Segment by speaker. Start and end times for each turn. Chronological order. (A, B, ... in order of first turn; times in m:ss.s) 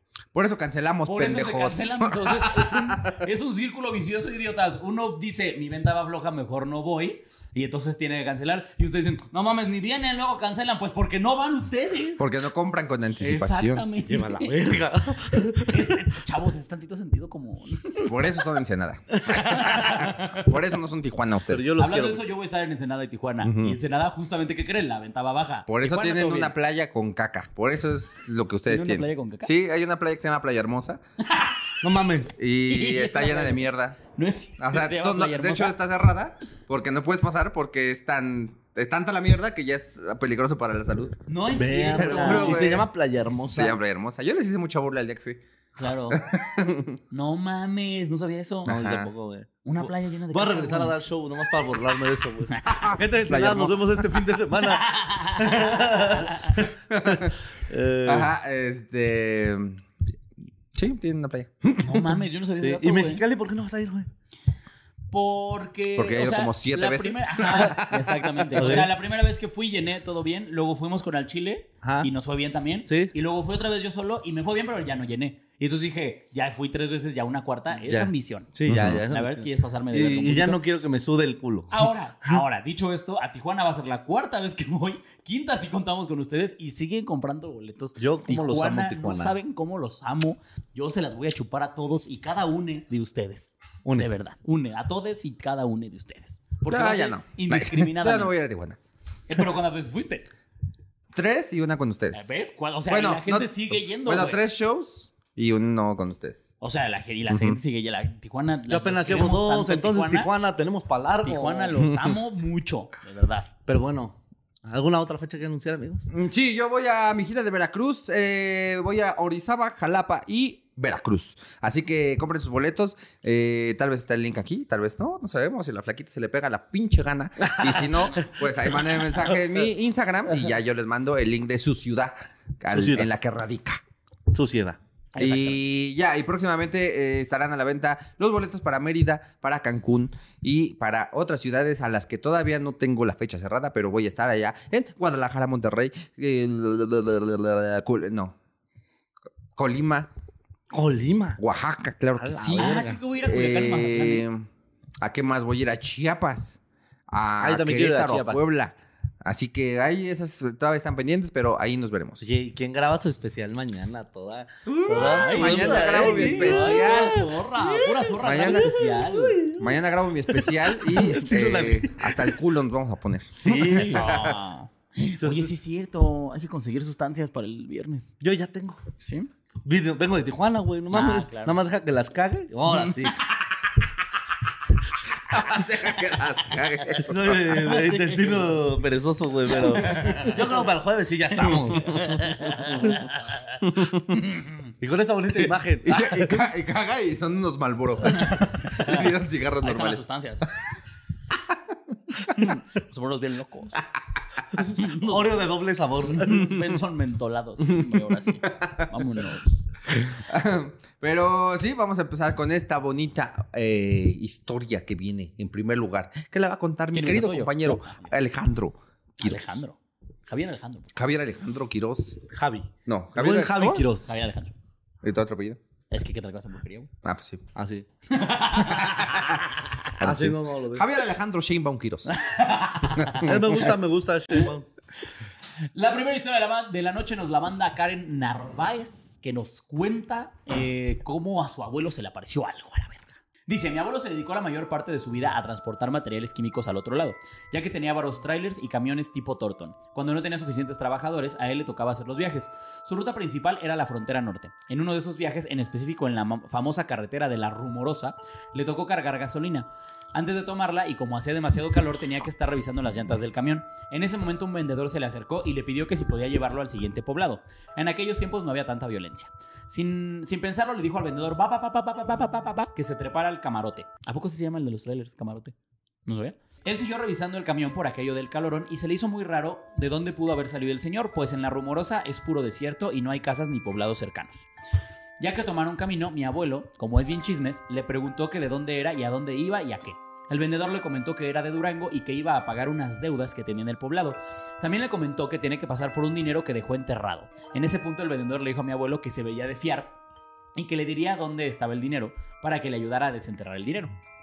0:00.3-0:03.2 A
0:01.0-0:12.2 B
0:12.2-0:13.8 A
0:13.2-0:18.2 B
0:14.0-0:16.1 C
0:18.0-0:21.7 A
0:19.3-0:20.4 B
0:21.5-0:22.2 C
0:21.8-0:26.5 B
0:23.4-0:23.8 A
0:25.7-0:31.0 A
0:28.7-0:29.5 B
0:31.2-0:31.7 B
0:31.8-0:32.3 C
0:32.4-0:34.0 A
0:32.7-0:35.8 B
0:34.6-0:41.2 A
0:41.3-0:42.7 B
0:41.5-0:43.8 C
0:41.9-0:42.9 A
0:43.5-0:45.4 A
0:45.8-0:46.2 B
0:46.1-0:47.0 A
0:47.1-0:48.7 B
0:48.6-0:58.3 C
0:48.7-0:49.1 A
0:49.6-0:50.9 B
0:52.5-0:52.8 B
0:52.7-0:54.1 A
0:54.6-0:56.6 B
0:56.9-0:57.3 A
0:58.0-0:59.8 A
1:00.7-1:01.8 A
1:01.8-1:03.2 B
1:02.6-1:04.1 C
1:05.1-1:18.5 B
1:06.0-1:08.8 A
1:08.6-1:08.9 C
1:11.8-1:12.1 C
1:12.9-1:13.1 C
1:17.8-1:22.4 C
1:18.7-1:19.0 A
1:19.1-1:20.6 B
1:21.7-1:38.4 B
1:28.0-1:29.4 C
1:36.7-1:38.8 A
1:39.3-1:40.3 B
1:41.1-1:46.4 A
1:42.1-1:44.4 B
1:46.6-1:50.3 B
1:47.3-1:47.6 A
1:48.7-1:51.8 C
1:51.2-1:53.5 B
1:53.7-1:56.1 C
1:56.1-2:13.8 A
2:07.4-2:09.6 C
2:12.7-2:13.1 C
2:14.3-2:14.8 C
2:15.1-2:15.6 B
2:15.2-2:28.3 A
2:29.6-2:30.1 A
2:30.7-2:31.4 C
2:31.4-2:34.4 A
2:32.2-2:33.0 C
2:32.5-2:34.2 B
2:35.0-2:36.6 A
2:37.1-2:42.3 A
2:37.4-2:38.4 C
2:42.2-2:49.7 C
2:44.7-2:47.2 A
2:44.9-2:49.4 B
2:48.2-2:48.7 A
2:49.5-2:54.4 A
2:50.3-2:52.3 C
2:53.3-2:54.1 C
2:53.7-2:58.1 B
2:55.2-2:55.5 C
2:58.2-2:58.8 C
2:59.6-3:03.2 C
3:00.9-3:01.6 B
3:02.8-3:03.5 B
3:05.3-3:07.6 A
3:07.0-3:13.1 C
3:07.5-3:08.7 B
3:09.5-3:10.6 B
3:11.3-3:14.7 B
3:13.7-3:14.0 A
3:14.8-3:16.4 C
3:15.4-3:20.0 A
3:18.1-3:19.1 B
3:19.6-3:20.5 B
3:22.4-3:23.8 B
3:24.6-3:26.8 C
3:24.6-3:25.4 B
3:26.1-3:29.7 B
3:30.1-3:39.4 A
3:36.9-3:38.1 B
3:39.2-3:40.9 B
3:40.9-3:42.2 A
3:42.3-3:44.1 C
3:42.8-3:43.8 A
3:44.0-3:44.5 B
3:45.0-3:45.6 A
3:45.9-3:46.9 B
3:47.0-3:47.4 A
3:47.5-3:47.8 C
3:48.1-3:49.8 B
3:48.8-3:49.3 A
3:50.0-3:50.9 C
3:50.0-3:52.1 A
3:52.1-3:53.4 B
3:53.0-3:53.3 A
3:53.2-3:54.7 C
3:55.7-4:35.5 B
4:36.0-4:44.4 B
4:45.2-5:00.0 B
5:00.5-5:03.9 B